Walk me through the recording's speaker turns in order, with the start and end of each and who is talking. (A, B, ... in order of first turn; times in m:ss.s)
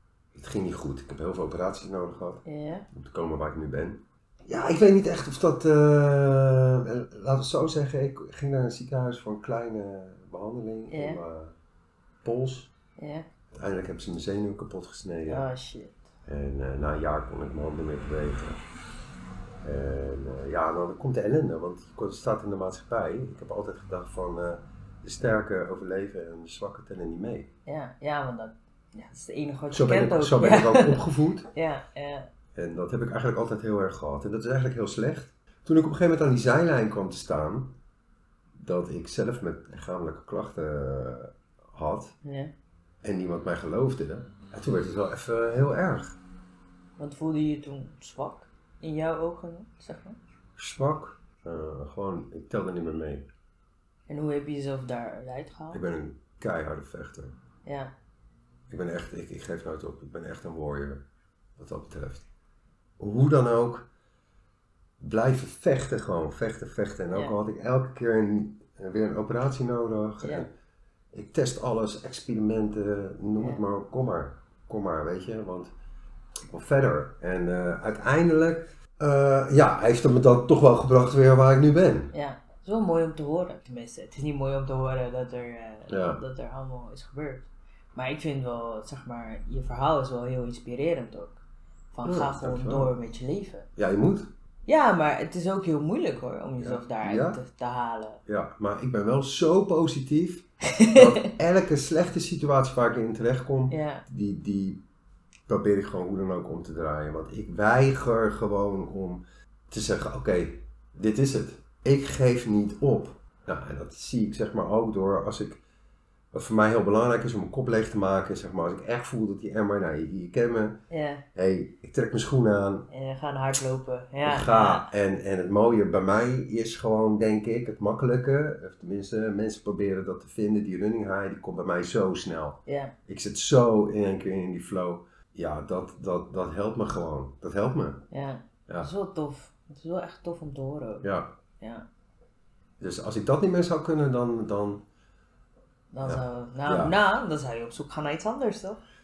0:00.3-0:11.5 A
0:02.4-0:02.9 B
0:10.9-0:11.2 B
0:12.2-0:12.7 A
0:13.0-0:13.3 B
0:13.5-0:15.4 A
0:15.3-0:16.1 B
0:16.2-0:18.6 A
0:19.6-0:27.5 A
0:27.6-0:32.3 B
0:29.7-0:31.5 A
0:32.5-0:37.8 A
0:38.6-0:42.2 A
0:42.2-0:42.5 B
0:43.0-0:46.2 A
0:47.0-0:50.2 B
0:50.6-0:53.3 A
0:54.1-0:55.8 B
0:55.7-0:57.3 A
0:57.6-0:57.9 B
0:58.7-1:01.0 A
1:01.6-1:02.3 A
1:03.0-1:03.9 A
1:05.0-1:10.5 A
1:11.1-1:15.7 A
1:16.5-1:22.1 A
1:22.1-1:31.4 B
1:25.9-1:26.2 A
1:31.9-1:33.7 B
1:32.0-1:32.9 A
1:33.8-1:34.3 A
1:34.6-1:38.2 B
1:36.6-1:37.4 A
1:38.2-1:44.8 A
1:40.6-1:41.3 B
1:43.7-1:44.0 B
1:45.5-1:55.6 A
1:56.3-2:00.8 A
2:00.9-2:01.2 B
2:01.3-2:02.9 A
2:02.9-2:04.9 B
2:04.2-2:18.0 A
2:12.7-2:12.9 B
2:18.1-2:21.1 B
2:21.0-2:21.3 A
2:21.6-2:21.8 B
2:22.8-2:24.8 A
2:25.9-2:28.8 B
2:26.0-2:26.9 A